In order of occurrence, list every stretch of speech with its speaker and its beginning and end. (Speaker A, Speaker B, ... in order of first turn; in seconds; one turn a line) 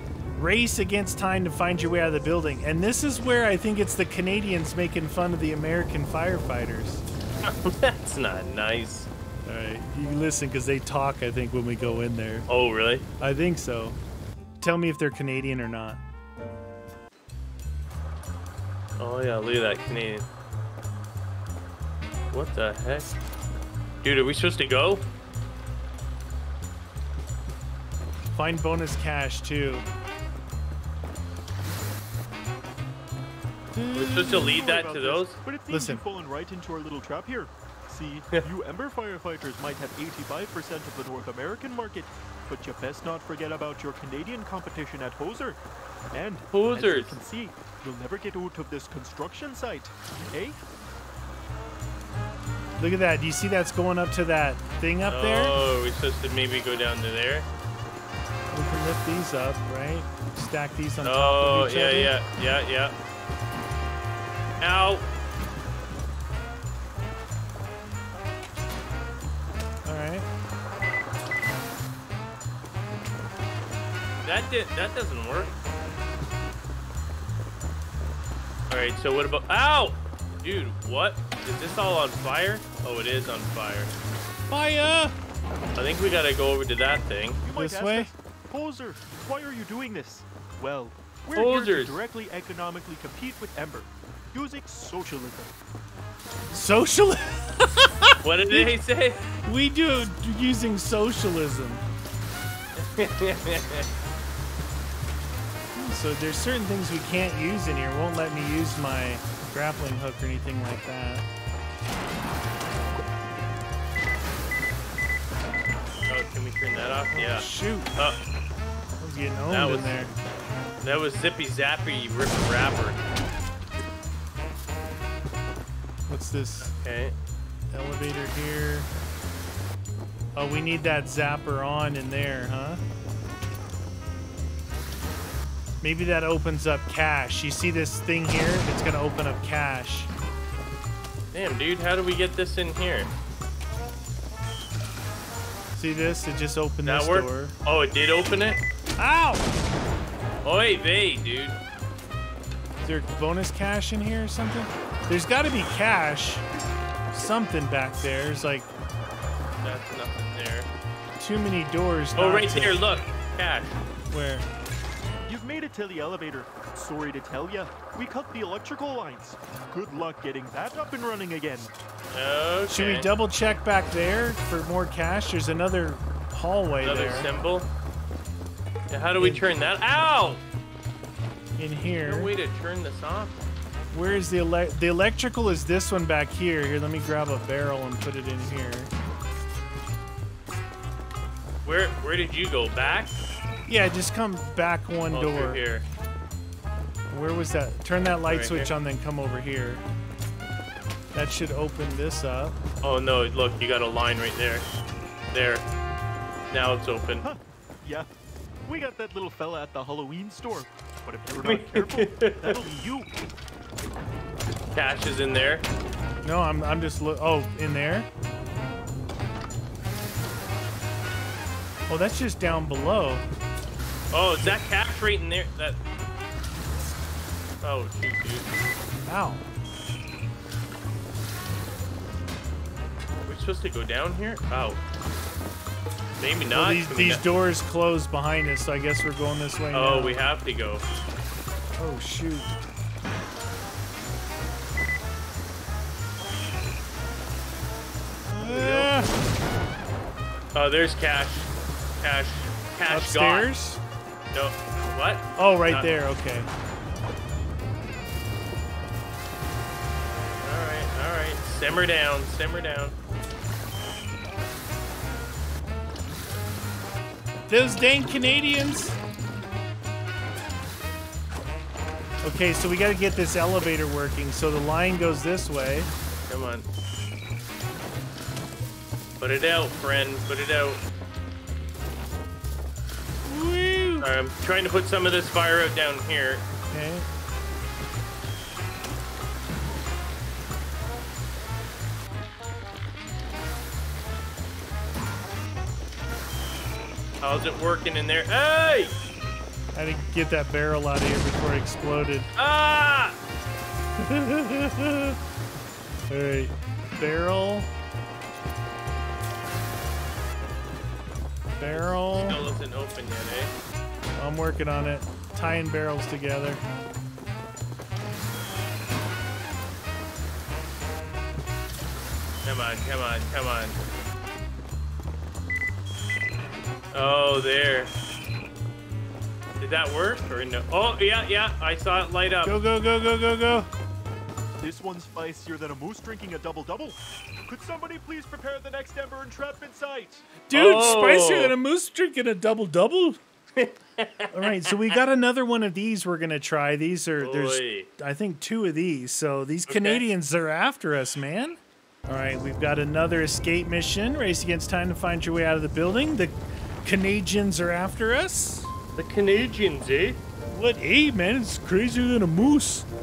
Speaker A: 0.4-7.0
Speaker B: 7.4-9.1
Speaker A: 9.5-12.5
Speaker B: 12.5-13.1
Speaker A: 13.2-14.0
Speaker A: 14.6-16.0
Speaker B: 19.0-20.3
Speaker B: 22.3-23.1
Speaker B: 24.0-25.0
Speaker A: 28.3-29.9
Speaker A: 33.7-34.7
Speaker B: 34.0-35.4
Speaker C: 34.3-45.6
Speaker A: 35.7-36.0
Speaker C: 46.1-50.6
Speaker B: 46.5-47.2
Speaker A: 52.8-55.5
Speaker B: 55.1-57.5
Speaker A: 58.5-62.1
Speaker B: 61.0-63.0
Speaker B: 64.6-65.1
Speaker A: 69.8-70.3
Speaker B: 74.2-75.5
Speaker B: 78.7-83.9
Speaker A: 84.5-85.2
Speaker B: 85.8-87.4
Speaker C: 87.4-95.5
Speaker A: 87.5-88.1
Speaker B: 91.3-92.0
Speaker A: 96.5-98.7
Speaker B: 98.2-99.2
Speaker A: 99.3-101.8
Speaker B: 102.8-103.9
Speaker A: 105.8-111.3
Speaker B: 116.1-118.2
Speaker A: 117.1-118.0
Speaker A: 119.0-120.1
Speaker B: 119.5-120.0
Speaker B: 120.8-123.0
Speaker A: 126.1-126.7
Speaker B: 126.6-127.2
Speaker A: 127.7-128.9
Speaker A: 130.4-132.8
Speaker A: 135.8-140.1
Speaker B: 141.3-143.1
Speaker A: 145.8-147.5
Speaker B: 146.9-148.6
Speaker A: 149.0-149.5
Speaker B: 150.4-151.6
Speaker A: 152.8-156.4
Speaker A: 157.1-158.7
Speaker B: 159.6-160.7
Speaker A: 161.2-162.8
Speaker B: 162.2-163.8
Speaker A: 164.1-164.5
Speaker C: 165.3-171.7
Speaker B: 172.1-173.1
Speaker A: 172.7-177.3
Speaker B: 176.8-177.7
Speaker B: 178.9-180.4
Speaker A: 179.2-179.4
Speaker A: 181.6-182.3
Speaker B: 182.1-183.4
Speaker A: 183.9-188.9
Speaker B: 191.6-193.2
Speaker A: 193.7-195.6
Speaker B: 195.1-195.8
Speaker A: 197.1-199.8
Speaker B: 198.3-198.7
Speaker A: 201.1-202.6
Speaker B: 202.8-204.7
Speaker B: 205.3-205.7
Speaker B: 206.5-207.2
Speaker C: 207.2-208.1
Speaker C: 208.7-213.1
Speaker B: 211.4-212.6
Speaker B: 214.7-215.7
Speaker A: 216.2-218.1
Speaker A: 221.9-223.3
Speaker B: 224.1-225.8
Speaker B: 227.6-228.5
Speaker A: 229.0-229.4
Speaker B: 233.3-234.8
Speaker B: 236.2-237.2
Speaker A: 236.5-240.2
Speaker B: 239.7-240.8
Speaker A: 241.8-242.6
Speaker A: 248.3-249.1
Speaker B: 248.4-249.2
Speaker B: 250.5-251.5
Speaker B: 252.0-253.5
Speaker A: 252.9-253.8
Speaker B: 254.3-255.9
Speaker A: 255.4-256.5
Speaker B: 260.4-262.9
Speaker A: 267.5-269.0
Speaker A: 272.2-275.9
Speaker B: 276.3-276.7
Speaker B: 279.2-280.8
Speaker A: 283.3-284.1
Speaker B: 284.0-286.4
Speaker A: 286.7-287.1
Speaker B: 297.2-298.9
Speaker A: 299.8-302.3
Speaker B: 302.4-303.2
Speaker A: 304.0-305.2
Speaker A: 306.1-307.7
Speaker A: 311.6-312.4
Speaker B: 311.7-313.5
Speaker A: 314.2-316.6
Speaker B: 322.4-323.8
Speaker B: 326.9-327.9
Speaker B: 329.6-332.6
Speaker A: 332.4-333.7
Speaker C: 334.6-340.3
Speaker A: 340.5-343.2
Speaker B: 340.5-341.6
Speaker B: 343.6-345.0
Speaker A: 344.3-358.7
Speaker B: 347.2-347.9
Speaker B: 349.7-350.1
Speaker B: 359.0-360.2
Speaker A: 360.5-362.9